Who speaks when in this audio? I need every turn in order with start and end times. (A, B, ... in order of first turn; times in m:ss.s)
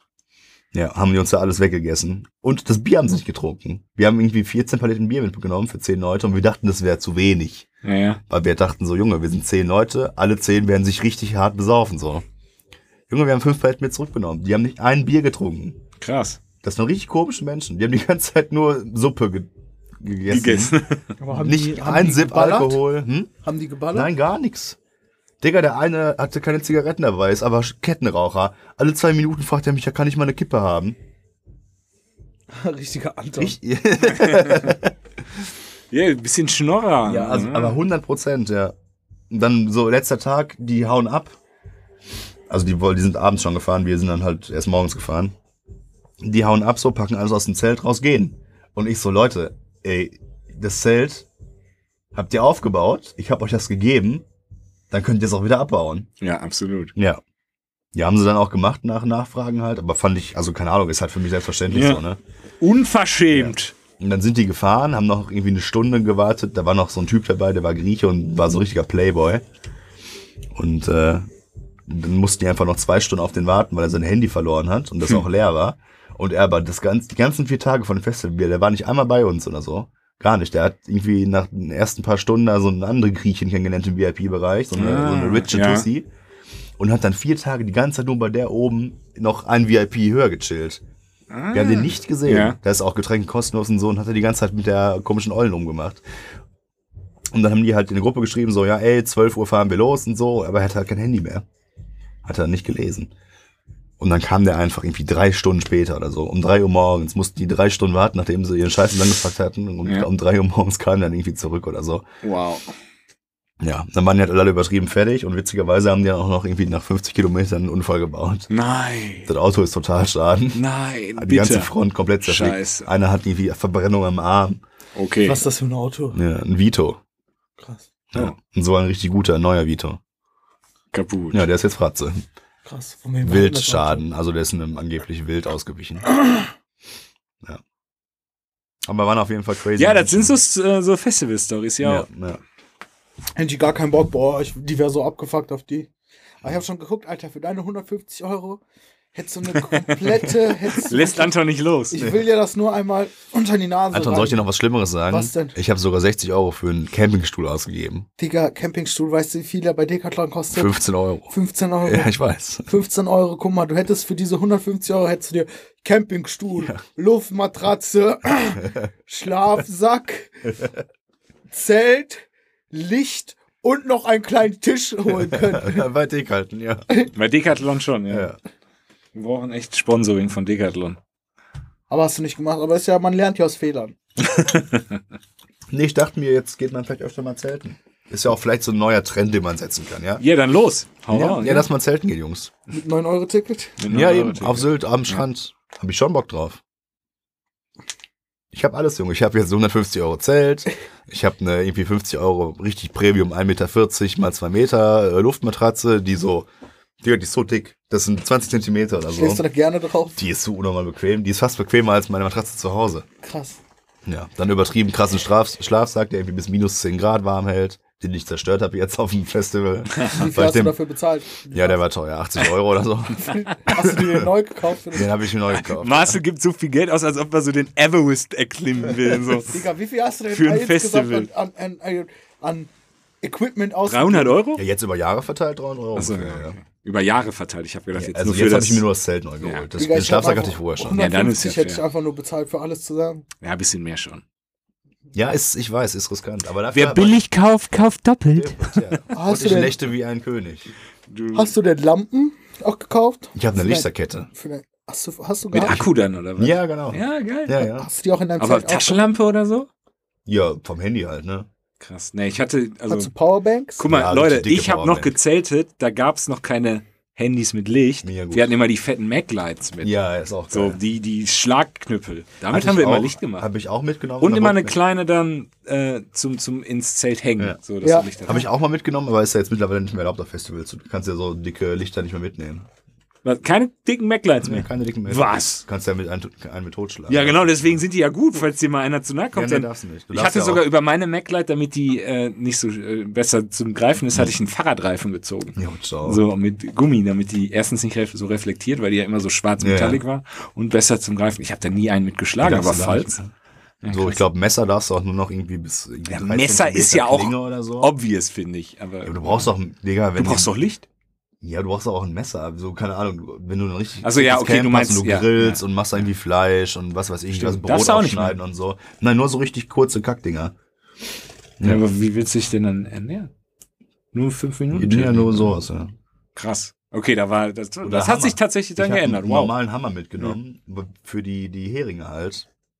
0:00.7-0:07.7 A
0:07.8-0:08.2 B
0:08.3-0:12.2 A
0:13.1-0:15.8 A
0:16.0-0:16.4 B
0:16.6-0:20.8 A
0:20.3-0:21.2 B
0:21.2-0:22.8 C
0:21.3-0:23.3 A
0:23.4-0:24.1 C
0:23.9-0:24.8 A
0:25.4-0:31.0 A
0:32.5-0:33.6 C
0:33.4-0:35.0 A
0:34.1-0:34.8 B
0:35.9-0:37.8 B
0:37.0-0:38.8 A
0:39.3-0:41.4 A
0:42.5-0:45.4 A
0:46.2-0:51.3 A
0:52.1-0:54.2 A
0:54.9-0:56.1 A
0:56.2-0:56.9 B
0:57.0-0:57.2 A
0:57.9-1:02.2 A
1:01.7-1:02.0 B
1:02.6-1:03.7 B
1:03.3-1:09.4 A
1:10.5-1:11.2 A
1:11.9-1:26.1 A
1:24.8-1:25.9 B
1:26.8-1:30.8 A
1:31.3-1:32.6 B
1:31.5-1:36.0 A
1:37.3-1:41.4 A
1:42.2-1:43.1 A
1:44.0-1:52.0 A
1:52.2-1:52.7 B
1:53.6-1:58.5 A
1:58.5-1:59.3 B
1:59.3-2:00.6 A
2:00.6-2:02.9 B
2:01.2-2:04.6 A
2:05.0-2:05.4 B
2:05.3-2:06.2 C
2:06.1-2:07.0 A
2:07.6-2:07.9 C
2:08.1-2:10.0 A
2:10.9-2:11.4 B
2:11.3-2:12.2 A
2:12.6-2:14.0 C
2:13.2-2:16.1 A
2:18.9-2:20.4 A
2:19.8-2:22.1 B
2:21.8-2:22.4 A
2:23.4-2:25.9 C
2:26.4-2:28.6 C
2:29.1-2:31.4 C
2:29.5-2:32.0 B
2:31.9-2:34.4 C
2:33.9-2:38.1 A
2:35.1-2:35.6 C
2:38.2-2:40.8 C
2:40.5-2:41.3 A
2:41.3-2:42.2 C
2:41.8-2:42.7 A
2:42.7-2:50.6 C
2:51.5-2:55.8 C
2:55.2-2:56.8 A
2:57.1-2:58.3 B
2:58.1-2:58.4 A
2:59.2-3:01.0 B
3:01.9-3:04.0 C
3:04.2-3:05.0 B
3:05.7-3:10.2 A
3:10.2-3:11.7 B
3:11.1-3:12.5 A
3:12.7-3:13.9 C
3:13.8-3:15.2 B
3:13.9-3:16.6 A
3:18.5-3:26.5 A
3:27.0-3:29.4 A
3:29.2-3:30.2 C
3:30.2-3:33.1 A
3:33.2-3:33.6 C
3:34.1-3:40.8 A
3:40.0-3:41.8 C
3:41.5-3:44.3 A
3:43.2-3:45.2 C
3:44.9-3:46.2 A
3:45.5-3:49.6 B
3:49.5-3:52.7 C
3:50.3-3:51.3 B
3:53.2-3:54.4 C
3:53.8-3:54.6 B
3:54.6-3:56.6 A
3:56.0-3:58.9 B
3:57.9-4:01.0 A
3:59.8-4:03.3 C
4:00.9-4:01.8 B
4:03.4-4:04.2 B
4:05.1-4:07.2 A
4:06.7-4:09.0 B
4:08.4-4:10.7 A
4:09.1-4:09.8 C
4:11.1-4:11.5 B
4:11.3-4:15.9 C
4:13.4-4:14.3 A
4:15.5-4:17.6 B
4:15.6-4:15.9 A
4:16.4-4:17.9 A
4:17.8-4:19.0 C
4:18.4-4:19.7 B
4:20.3-4:21.5 A
4:21.8-4:23.1 B
4:22.9-4:23.8 C
4:23.8-4:30.0 B
4:23.9-4:25.2 A
4:28.0-4:28.6 A
4:29.8-4:30.8 A
4:30.5-4:33.5 B
4:32.5-4:34.8 A
4:34.2-4:38.5 B
4:37.8-4:38.1 C
4:38.3-4:42.7 A
4:43.2-4:45.6 B
4:44.4-4:47.8 A
4:47.1-5:03.2 B
4:49.3-4:50.6 A
4:55.6-4:56.2 A
4:59.6-5:00.0 A
5:02.4-5:03.3 A
5:03.8-5:04.2 B
5:03.9-5:07.9 A
5:06.1-5:09.5 B
5:09.0-5:10.5 A
5:10.2-5:10.9 B
5:11.4-5:20.5 A
5:14.0-5:15.6 B
5:17.3-5:18.4 B
5:21.6-5:23.3 B
5:24.1-5:25.5 B
5:24.7-5:25.9 A
5:26.4-5:29.6 B
5:27.8-5:32.5 A